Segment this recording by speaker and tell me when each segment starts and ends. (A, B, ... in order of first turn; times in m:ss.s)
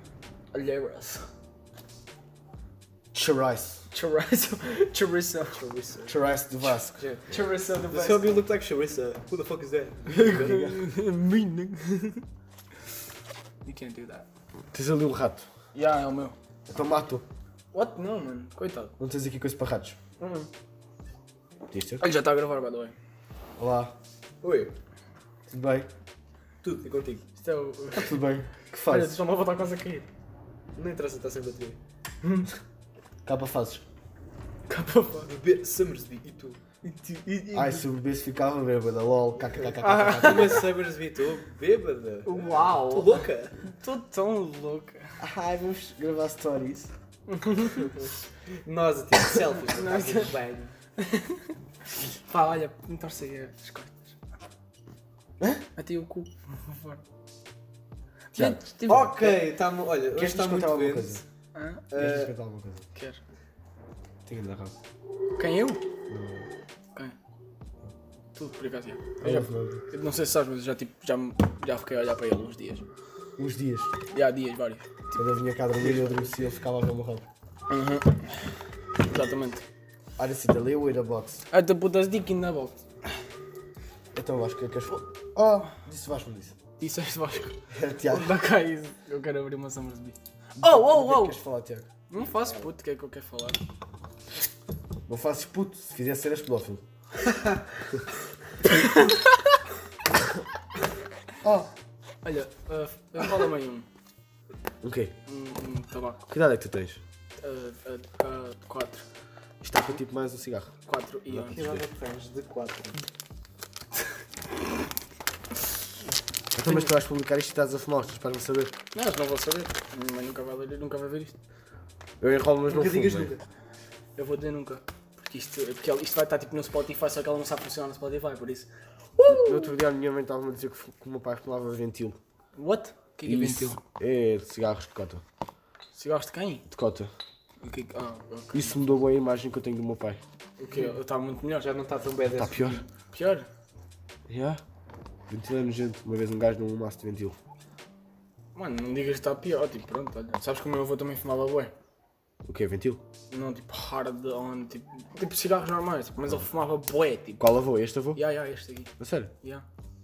0:00.5-0:01.3 A
0:03.1-0:03.8 B
0:03.9-0:05.6 A
0:05.5-0:06.2 C
0:06.1-0:07.0 B
0:07.0-0:10.6 C
0:07.3-0:08.4 A
0:10.2-0:10.8 B
0:10.2-0:12.2 A
0:13.6-0:14.2 A
0:14.7-0:15.4 B
0:15.7-0:16.4 A
0:16.7-0:17.2 B
0:17.7-0:18.9 A
0:19.0-0:20.0 B
0:20.2-0:20.5 A
0:21.7-0:22.0 B
0:22.0-0:22.9 A
0:23.6-0:23.9 B
0:24.4-0:24.7 C
0:25.5-0:25.9 B
0:26.6-0:27.2 C
0:27.4-0:28.2 A
0:27.9-0:29.2 B
0:28.8-0:30.1 A
0:30.7-0:31.8 C
0:32.2-0:32.5 A
0:33.2-0:33.8 B
0:34.7-0:35.3 A
0:35.2-0:36.6 C
0:36.8-0:37.8 A
0:37.5-0:40.6 B
0:39.8-0:43.6 C
0:39.8-0:40.6 A
0:42.2-0:45.2 A
0:45.2-0:46.9 B
0:47.3-0:48.0 A
0:48.6-0:50.7 C
0:49.7-0:50.3 A
0:51.0-0:51.5 A
0:52.3-0:54.1 A
0:55.8-0:57.0 A
0:58.3-0:59.1 A
0:58.4-0:59.4 B
0:58.9-1:01.2 C
1:00.1-1:01.2 B
1:01.5-1:01.8 A
1:01.9-1:02.3 C
1:01.9-1:02.8 B
1:02.9-1:03.2 A
1:04.2-1:04.7 B
1:05.4-1:05.8 A
1:06.1-1:06.5 B
1:08.3-1:12.9 A
1:09.2-1:09.8 B
1:13.4-1:13.9 B
1:14.1-1:14.8 A
1:15.1-1:17.3 B
1:15.8-1:16.3 C
1:17.7-1:19.6 A
1:20.2-1:21.4 B
1:21.5-1:22.8 A
1:24.1-1:26.6 B
1:26.8-1:31.4 A
1:27.7-1:28.3 B
1:30.6-1:31.9 B
1:32.1-1:33.6 A
1:35.1-1:36.8 B
1:38.7-1:39.4 A
1:41.4-1:41.7 B
1:42.2-1:43.9 A
1:44.8-1:45.1 B
1:45.3-1:46.3 A
1:46.3-1:47.0 B
1:47.4-1:49.0 A
1:49.6-1:50.7 B
1:50.9-1:51.6 A
1:51.3-1:51.8 B
1:51.5-1:53.0 C
1:56.5-1:58.7 B
1:58.9-2:01.3 A
2:02.2-2:03.3 B
2:02.7-2:03.4 C
2:04.2-2:09.7 A
2:09.3-2:12.2 B
2:12.6-2:13.8 A
2:13.2-2:15.2 B
2:15.9-2:16.6 A
2:16.7-2:17.1 B
2:17.6-2:18.8 A
2:18.5-2:20.2 B
2:20.6-2:20.9 C
2:20.7-2:21.7 A
2:21.6-2:22.8 C
2:22.4-2:22.8 B
2:23.1-2:23.5 A
2:24.3-2:24.6 B
2:25.3-2:27.4 B
2:28.5-2:31.7 A
2:32.4-2:33.0 B
2:33.3-2:37.4 A
2:37.4-2:38.2 B
2:38.1-2:39.6 A
2:39.0-2:39.3 B